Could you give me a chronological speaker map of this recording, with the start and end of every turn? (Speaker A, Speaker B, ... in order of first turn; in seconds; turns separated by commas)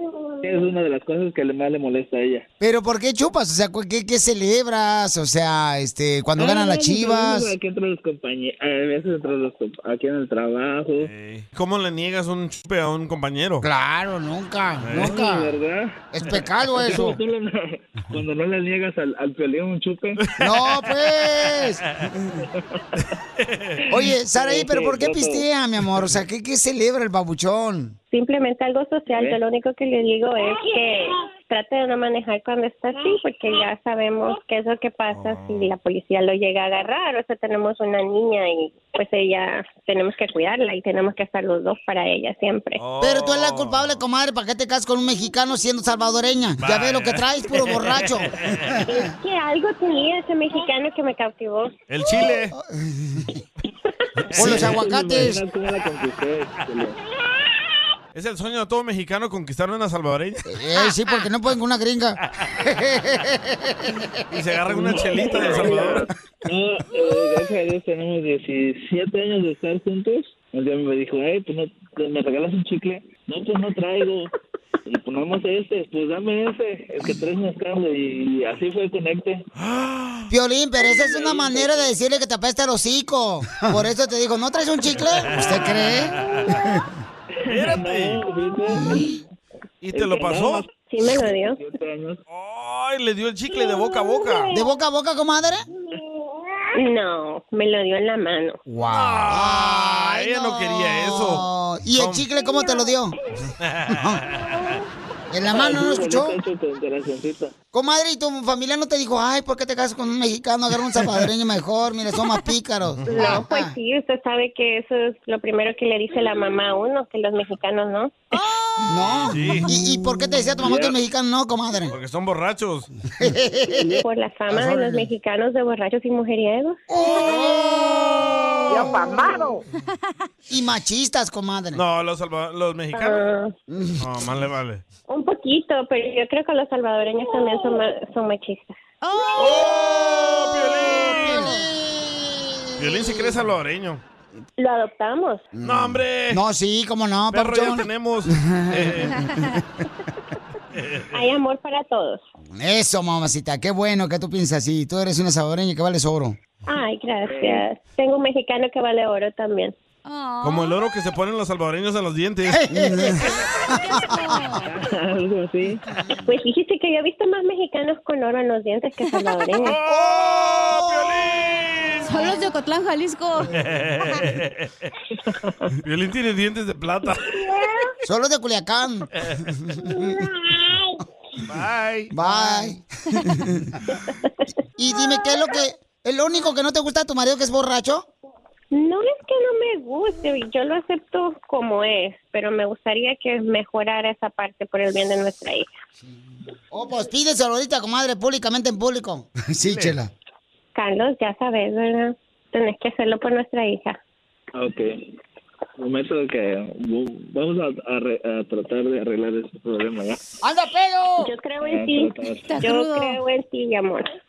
Speaker A: 0.4-2.5, Speaker B: 2.6-7.5, Speaker A: 6.4-11.1, Speaker C: 11.0-13.7, Speaker B: 13.6-15.5, Speaker C: 14.8-15.2, Speaker A: 14.9-16.0, Speaker B: 16.1-17.2, Speaker A: 16.8-20.2, Speaker C: 20.2-20.8, Speaker B: 20.4-21.8, Speaker C: 23.4-23.8, Speaker B: 23.9-27.9, Speaker A: 24.3-25.4, Speaker D: 28.1-42.8, Speaker C: 42.8-44.0, Speaker B: 43.0-48.3, Speaker C: 46.6-48.8, Speaker D: 48.9-51.7, Speaker C: 51.9-52.5, Speaker B: 52.5-53.4, Speaker C: 54.3-54.8, Speaker B: 54.3-55.4, Speaker A: 54.4-57.0, Speaker C: 58.1-60.4, Speaker B: 60.5-64.1, Speaker C: 64.3-66.0, Speaker A: 64.7-74.3, Speaker A: 74.8-79.4, Speaker C: 79.6-80.3, Speaker B: 80.3-86.8, Speaker A: 80.9-81.9, Speaker C: 85.0-86.4, Speaker A: 87.3-89.2, Speaker C: 87.5-88.2, Speaker C: 89.8-90.7, Speaker A: 89.9-92.2, Speaker D: 90.8-91.6, Speaker C: 92.3-94.5, Speaker B: 94.5-95.6, Speaker D: 96.8-98.6, Speaker B: 98.7-103.2, Speaker C: 98.8-102.3, Speaker C: 103.7-104.6, Speaker B: 103.9-104.2, Speaker B: 105.3-106.3, Speaker A: 105.5-107.5, Speaker B: 107.7-113.7, Speaker C: 113.0-113.4, Speaker D: 113.1-118.2, Speaker E: 118.3-118.9, Speaker B: 118.8-122.0, Speaker C: 119.0-119.7, Speaker A: 120.6-121.0, Speaker C: 121.9-122.9, Speaker B: 123.2-125.1, Speaker D: 124.0-126.8, Speaker B: 126.9-129.2, Speaker B: 130.5-131.8, Speaker C: 131.7-133.3, Speaker D: 132.9-133.5, Speaker B: 133.7-134.1, Speaker C: 134.0-134.8, Speaker D: 135.1-138.8, Speaker E: 139.0-139.5, Speaker C: 139.4-141.6, Speaker B: 139.6-143.3, Speaker C: 142.8-144.0, Speaker D: 144.6-145.5, Speaker B: 145.5-149.6, Speaker C: 145.6-146.4, Speaker C: 147.3-149.3, Speaker C: 150.7-151.1, Speaker D: 151.1-152.2, Speaker B: 152.5-156.4, Speaker D: 156.7-159.7, Speaker A: 157.3-157.6, Speaker E: 160.0-160.7, Speaker C: 160.4-162.8, Speaker B: 162.5-163.3, Speaker E: 163.6-164.7, Speaker B: 163.9-164.4, Speaker A: 164.8-165.8, Speaker D: 166.3-169.7, Speaker C: 169.6-172.3, Speaker B: 169.8-171.2, Speaker E: 172.1-173.5, Speaker C: 173.5-174.7, Speaker C: 175.8-177.5, Speaker B: 178.0-179.1, Speaker B: 179.7-180.2, Speaker C: 181.5-182.7, Speaker B: 182.1-183.6, Speaker B: 184.8-188.1, Speaker D: 188.7-195.7, Speaker B: 196.7-200.1, Speaker C: 199.6-200.0, Speaker D: 200.8-204.0, Speaker A: 204.6-205.1, Speaker A: 205.8-210.2, Speaker B: 210.4-211.3, Speaker D: 211.2-214.0, Speaker A: 211.6-212.5, Speaker E: 212.5-213.2